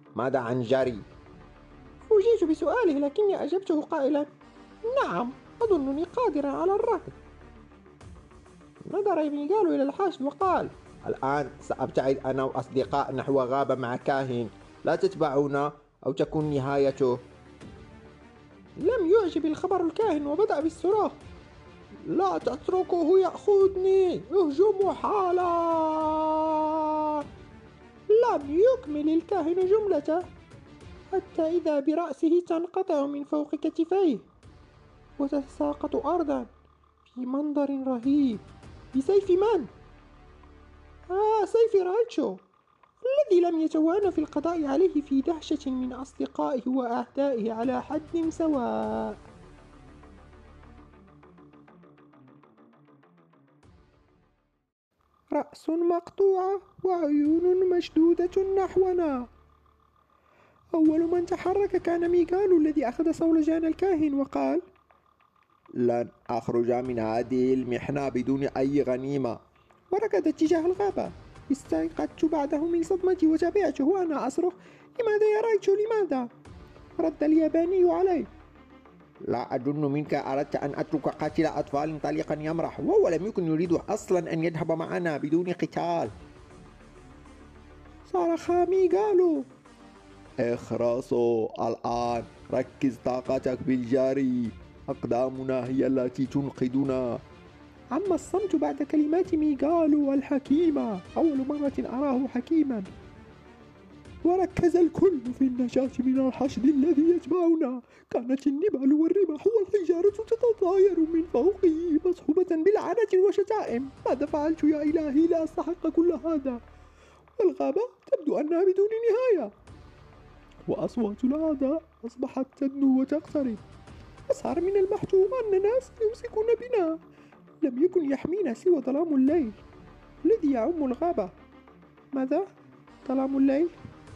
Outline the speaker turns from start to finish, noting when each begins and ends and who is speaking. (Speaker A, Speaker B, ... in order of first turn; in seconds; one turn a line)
Speaker A: 0.2-1.1
Speaker B: 2.1-4.3
Speaker B: 4.8-7.2
Speaker B: 8.9-10.8
Speaker A: 11.0-17.2
Speaker B: 18.8-21.2
Speaker B: 22.0-27.2
Speaker B: 28.1-30.3
Speaker B: 31.1-34.3
Speaker B: 35.2-36.5
Speaker B: 37.1-39.7
Speaker B: 41.1-42.4
Speaker B: 43.0-49.2
Speaker B: 55.3-59.3
Speaker B: 60.7-64.7
Speaker A: 65.8-69.4
Speaker B: 69.9-76.3
Speaker B: 77.0-78.3
Speaker A: 79.3-86.1
Speaker B: 88.1-89.5
Speaker A: 90.4-97.2
Speaker B: 97.9-102.9
Speaker B: 104.2-116.6
Speaker B: 117.4-119.5
Speaker B: 120.7-123.6
Speaker B: 124.3-127.0
Speaker B: 127.6-129.6
Speaker B: 130.2-131.3
Speaker B: 132.1-132.5
Speaker B: 133.0-133.8